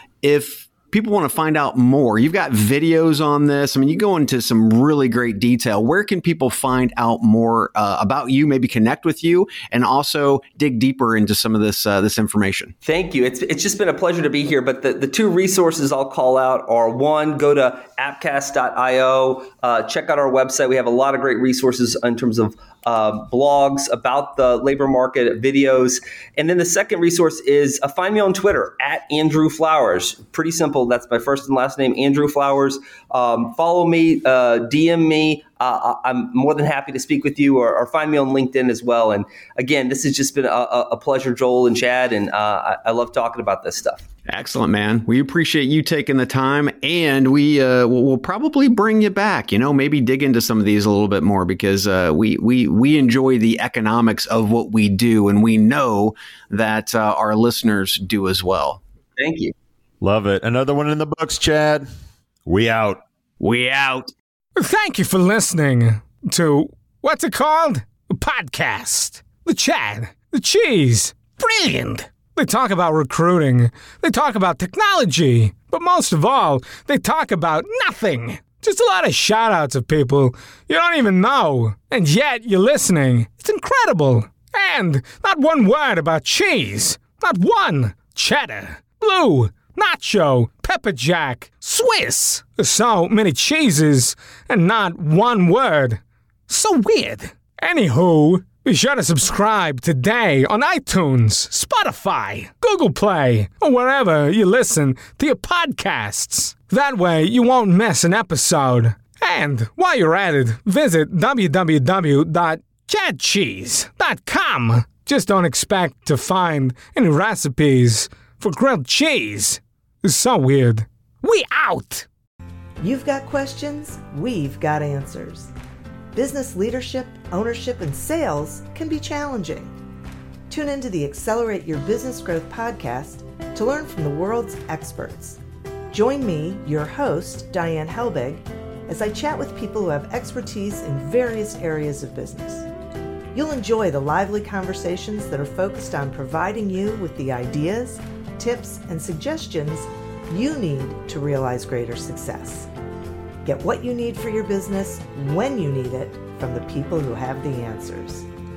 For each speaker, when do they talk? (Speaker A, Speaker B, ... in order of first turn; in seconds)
Speaker A: 0.2-12.8, 44.3-58.8, 63.4-64.1
Speaker B: 12.8-44.1, 59.2-59.5
Speaker C: 60.0-61.9, 62.5-63.0
Speaker D: 64.6-122.1
Speaker E: 122.8-125.5, 126.1-129.7, 130.5-135.4, 135.9-142.7, 143.3-152.7, 153.4-158.3